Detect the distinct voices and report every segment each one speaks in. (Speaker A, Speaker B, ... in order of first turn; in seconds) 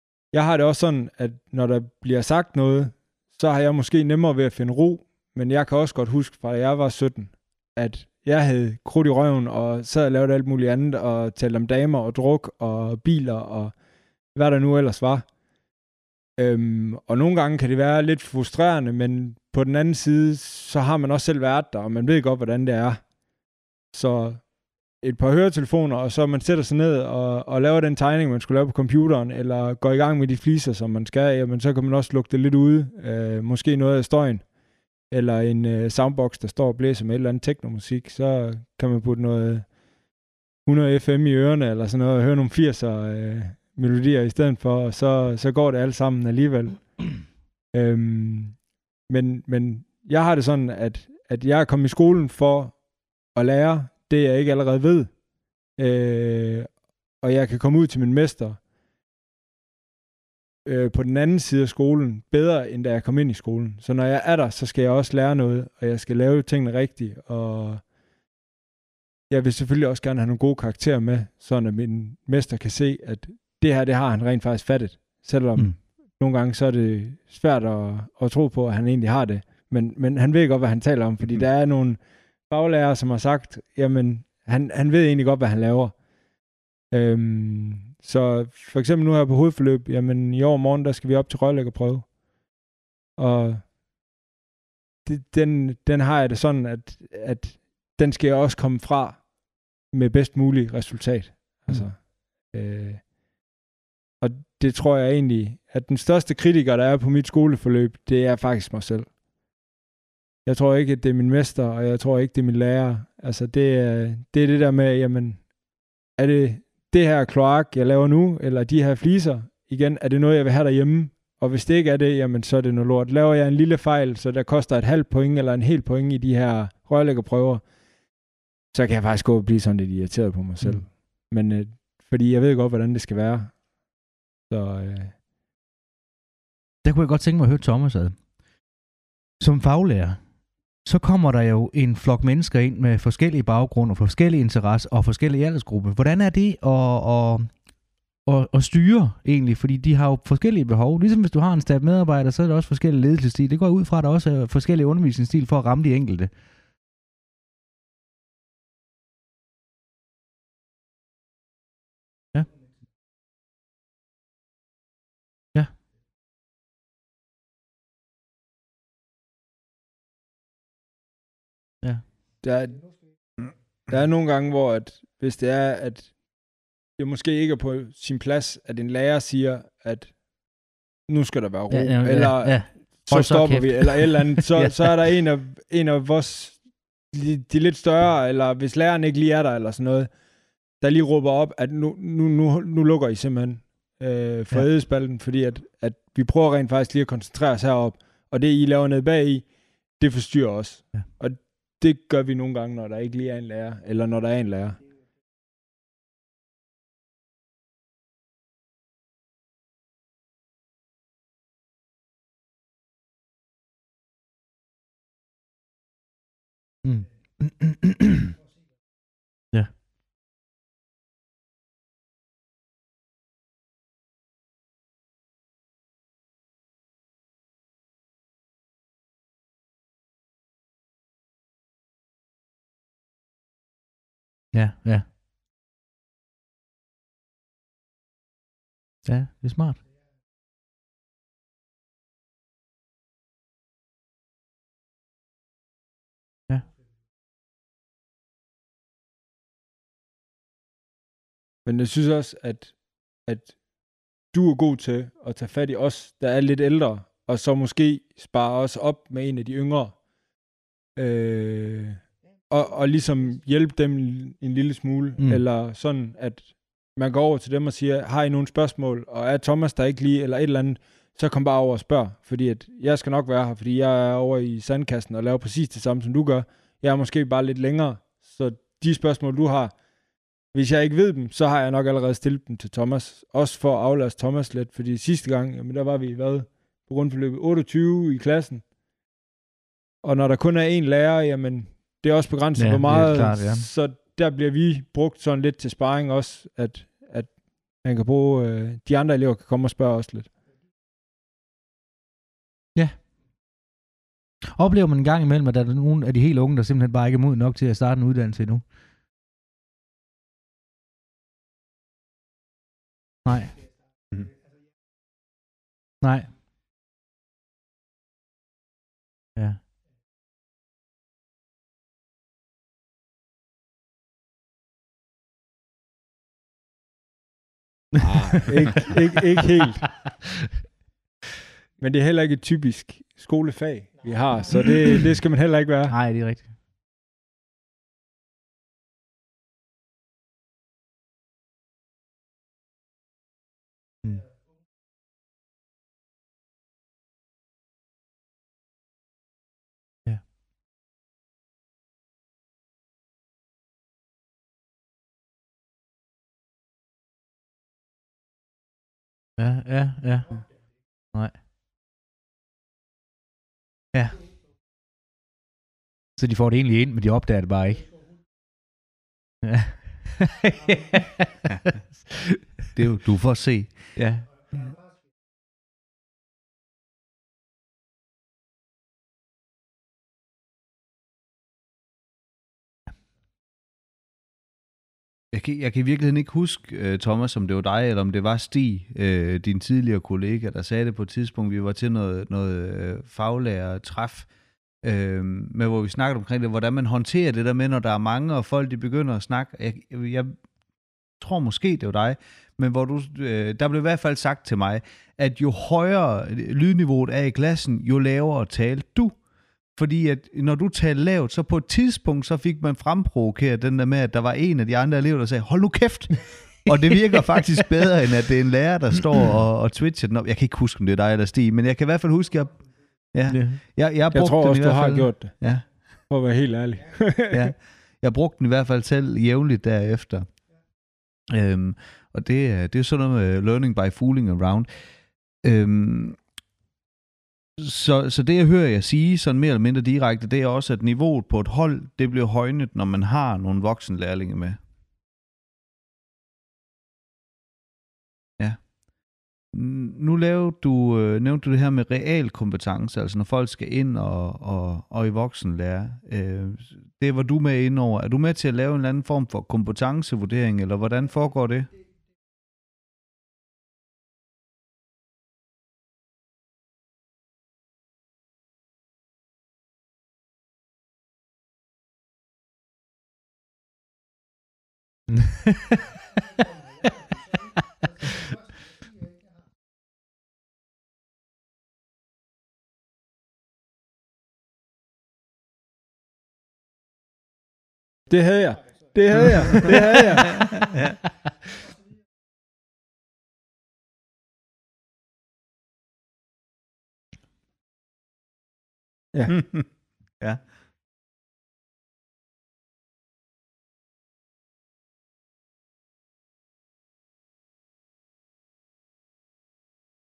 Speaker A: 0.3-13.7, 14.3-15.2, 16.4-23.0, 23.9-24.4, 25.0-34.5, 35.1-39.7, 40.6-52.8, 53.3-55.2, 55.8-58.6, 60.6-67.8, 69.3-86.0, 86.9-92.1, 93.2-93.7, 95.0-99.3, 99.9-103.1, 104.2-109.1, 110.5-115.5, 116.2-127.6, 128.7-133.6, 134.5-135.2, 172.4-176.2, 177.0-180.2, 181.1-190.1, 190.8-204.8, 251.6-253.6, 254.3-260.0, 261.0-279.7, 280.5-288.6, 290.0-300.3, 328.3-330.0, 331.8-336.0, 424.1-427.5, 488.1-490.6, 499.1-499.4
Speaker B: 136.8-138.2, 139.4-140.3, 140.8-147.6, 148.2-156.3, 181.7-185.1, 216.8-218.3, 234.5-235.1, 239.0-239.8, 292.6-293.7, 302.8-303.0, 304.5-308.7, 313.2-313.6, 316.0-316.4, 319.4-319.6, 335.9-336.5, 359.4-361.4, 363.9-364.3, 366.2-367.9, 369.4-372.1, 373.9-374.3, 423.3-423.6
Speaker C: 372.8-373.9, 385.3-394.3, 394.8-400.5, 401.2-425.7, 427.3-430.4, 431.3-434.9, 435.4-436.2, 437.6-444.6, 448.4-448.7, 449.5-461.7, 489.2-489.9, 490.6-491.0, 499.3-500.5